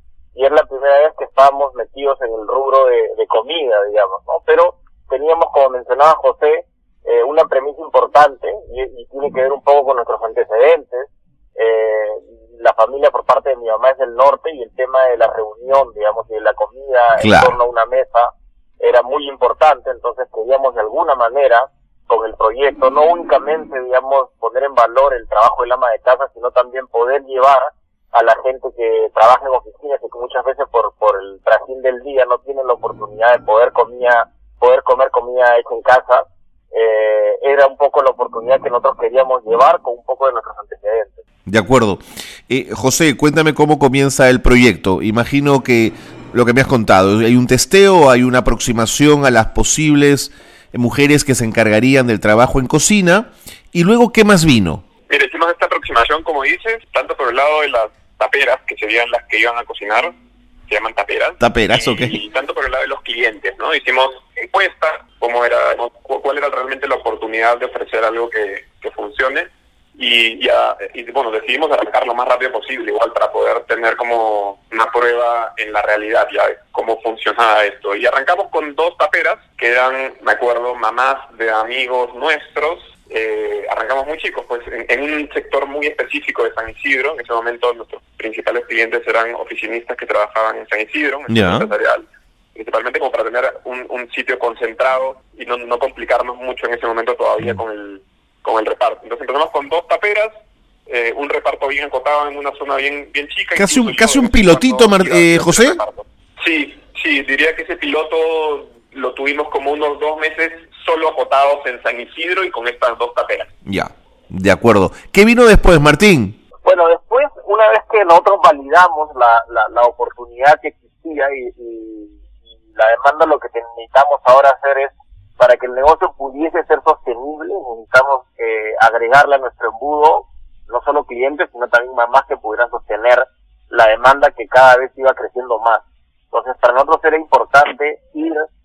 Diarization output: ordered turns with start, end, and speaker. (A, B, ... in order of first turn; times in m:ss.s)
0:00.4-0:41.2 A
0:17.2-0:17.6 B
0:41.5-0:54.8 B
0:55.1-1:00.1 C
1:00.7-1:40.3 C
1:01.4-1:02.2 B
1:31.3-1:31.7 B
1:40.9-1:53.5 C
1:43.6-1:45.8 B
1:53.6-1:56.4 B
1:56.6-2:02.2 A
2:02.7-2:18.5 A